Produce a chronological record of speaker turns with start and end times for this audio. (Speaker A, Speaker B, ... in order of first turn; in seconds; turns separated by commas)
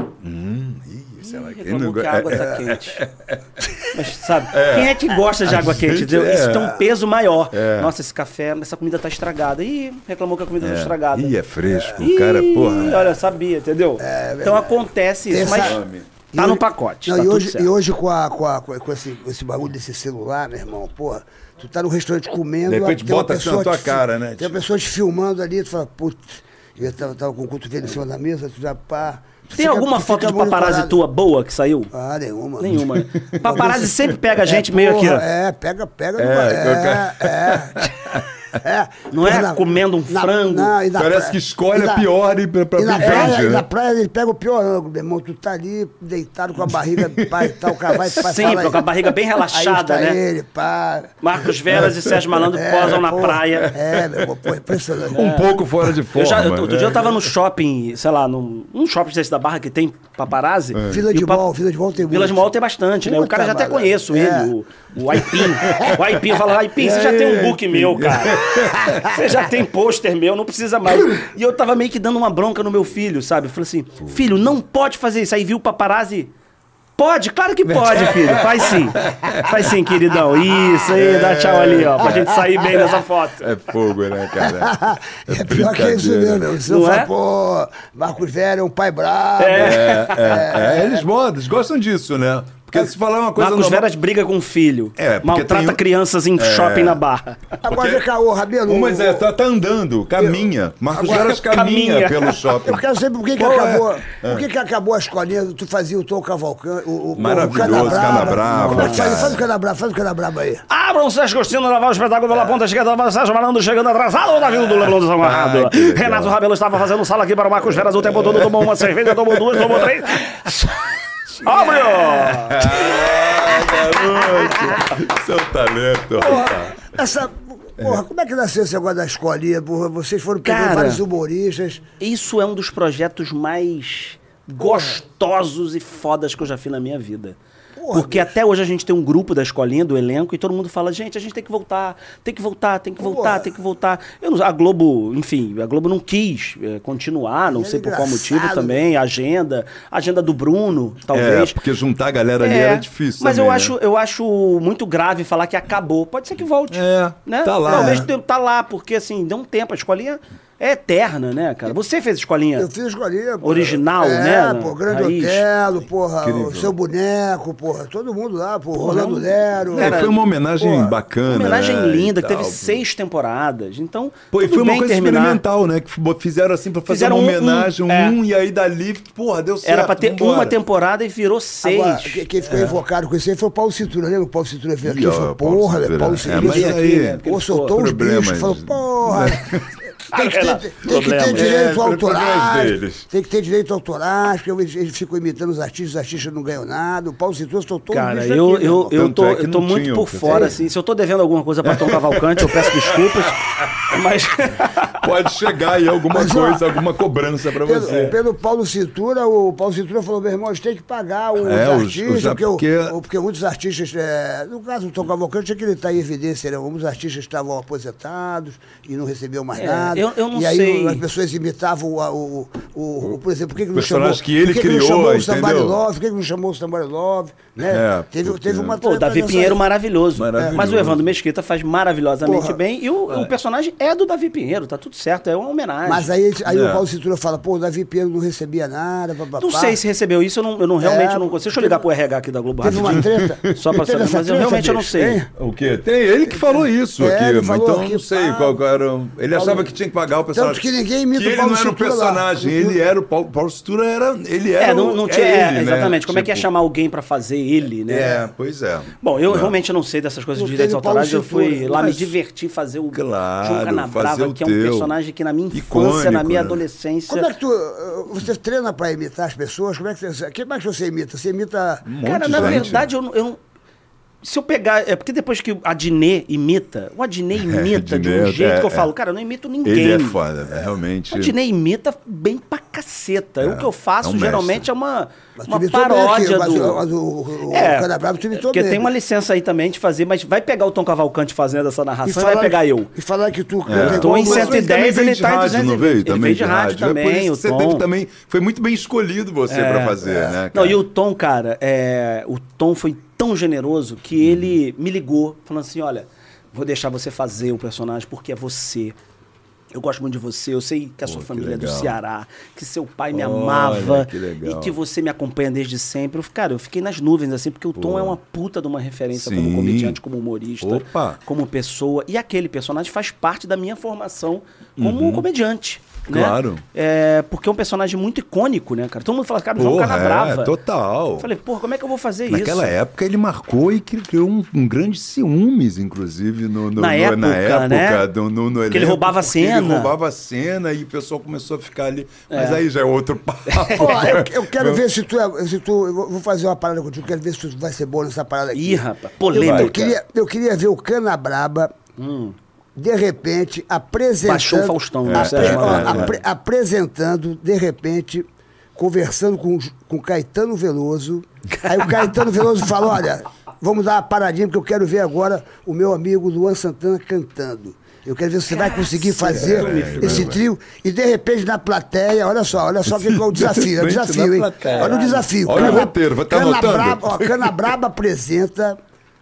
Speaker A: 0.2-3.8, Speaker B: 1.2-3.0, Speaker B: 3.9-11.4, Speaker A: 4.5-6.8, Speaker A: 7.5-7.9, Speaker A: 10.6-13.2, Speaker C: 11.7-12.0, Speaker B: 12.0-15.8, Speaker C: 14.0-15.8, Speaker A: 15.4-16.1, Speaker C: 16.3-31.0, Speaker B: 16.3-17.7, Speaker A: 22.7-24.6, Speaker B: 29.5-31.9, Speaker C: 31.9-33.9, Speaker B: 32.6-35.2, Speaker A: 32.7-33.8, Speaker C: 34.4-42.1, Speaker A: 36.2-38.3, Speaker B: 39.1-40.8, Speaker A: 41.0-43.6, Speaker C: 42.8-48.9, Speaker B: 43.0-43.4, Speaker A: 47.1-48.2, Speaker B: 48.1-50.2, Speaker C: 49.5-51.1, Speaker B: 51.2-53.7, Speaker A: 51.8-52.2, Speaker C: 52.5-55.2, Speaker A: 53.5-54.3, Speaker B: 55.1-55.5, Speaker A: 55.1-57.3, Speaker B: 56.1-61.5, Speaker A: 60.8-61.0, Speaker C: 60.9-62.4, Speaker B: 62.1-76.3, Speaker C: 63.0-64.5, Speaker A: 65.3-66.0, Speaker A: 66.8-69.3, Speaker B: 77.0-83.5, Speaker A: 77.7-79.6, Speaker A: 80.8-82.9, Speaker A: 83.4-86.5, Speaker C: 84.4-91.0, Speaker B: 86.7-87.1, Speaker B: 89.4-90.5, Speaker A: 89.5-93.9, Speaker B: 93.4-97.4, Speaker A: 95.0-95.8, Speaker A: 96.4-97.0, Speaker C: 97.6-99.3, Speaker A: 97.6-98.0, Speaker A: 98.7-102.8, Speaker C: 100.2-101.3, Speaker B: 101.1-102.4, Speaker C: 102.6-110.6, Speaker A: 103.4-104.5, Speaker A: 107.2-109.4, Speaker B: 107.6-109.3, Speaker B: 110.7-122.7, Speaker A: 114.7-116.3, Speaker A: 117.8-119.9, Speaker A: 121.8-126.9, Speaker C: 124.1-124.8, Speaker C: 126.2-131.8, Speaker B: 130.4-131.0, Speaker B: 132.0-137.4, Speaker C: 134.6-134.9, Speaker C: 137.8-138.3, Speaker B: 137.9-151.6, Speaker C: 143.0-143.5, Speaker C: 147.5-148.8, Speaker A: 151.1-153.7, Speaker B: 152.4-162.7, Speaker A: 156.7-158.1, Speaker C: 157.7-158.1, Speaker C: 162.6-170.9, Speaker B: 163.4-165.5, Speaker A: 166.2-166.8, Speaker B: 168.8-170.2, Speaker A: 169.8-172.8, Speaker B: 171.3-175.4, Speaker A: 174.3-180.6, Speaker B: 176.9-178.2, Speaker B: 179.7-182.2, Speaker C: 181.6-189.5, Speaker A: 182.5-182.8, Speaker A: 184.8-189.7, Speaker B: 186.3-187.8, Speaker C: 190.1-198.9, Speaker B: 190.1-191.5, Speaker A: 191.3-193.1, Speaker B: 197.9-204.9, Speaker A: 198.8-200.5, Speaker C: 200.2-200.5, Speaker A: 201.6-203.7, Speaker A: 204.9-208.2, Speaker C: 206.1-206.8, Speaker C: 207.6-229.6, Speaker A: 211.4-212.9, Speaker B: 219.6-221.0, Speaker A: 223.7-225.8, Speaker A: 227.7-228.8, Speaker B: 228.8-236.1, Speaker A: 230.2-231.1, Speaker C: 232.2-232.6, Speaker C: 235.9-239.8, Speaker A: 236.5-236.8, Speaker B: 239.4-245.2, Speaker C: 240.8-241.7, Speaker C: 242.6-245.3, Speaker A: 242.8-243.6, Speaker A: 245.4-256.5, Speaker C: 246.3-248.5, Speaker C: 249.3-249.7, Speaker C: 250.3-252.8, Speaker B: 254.6-258.2, Speaker A: 257.9-259.5, Speaker B: 259.0-267.3, Speaker C: 260.4-261.8, Speaker A: 261.7-262.2, Speaker A: 262.9-264.9, Speaker A: 265.5-266.6, Speaker C: 267.1-272.7, Speaker A: 271.9-272.9, Speaker B: 272.0-273.4, Speaker B: 274.2-280.2, Speaker A: 277.4-278.9, Speaker A: 279.6-281.3, Speaker B: 281.1-286.8, Speaker A: 283.4-284.6, Speaker C: 285.4-288.9, Speaker B: 287.5-292.9, Speaker C: 292.0-294.6, Speaker A: 293.7-300.8, Speaker B: 293.8-297.9, Speaker B: 299.5-309.0, Speaker A: 304.2-304.6, Speaker B: 309.7-330.5, Speaker A: 311.1-312.0, Speaker A: 313.1-314.8, Speaker A: 317.8-318.2, Speaker A: 319.1-320.0, Speaker A: 320.6-321.2, Speaker A: 324.8-325.3, Speaker A: 326.1-326.6, Speaker A: 329.6-331.3, Speaker B: 331.2-332.7, Speaker A: 332.3-344.8, Speaker B: 336.8-338.0, Speaker B: 338.7-339.9, Speaker B: 342.3-342.6, Speaker B: 343.5-344.2, Speaker C: 343.8-351.7, Speaker B: 348.5-350.0, Speaker A: 349.3-349.8, Speaker B: 352.0-352.4, Speaker C: 352.8-378.8, Speaker B: 354.2-356.1, Speaker A: 355.1-356.1, Speaker B: 361.6-361.9, Speaker B: 368.5-370.4, Speaker A: 369.3-370.4, Speaker A: 372.9-377.7, Speaker B: 374.6-375.9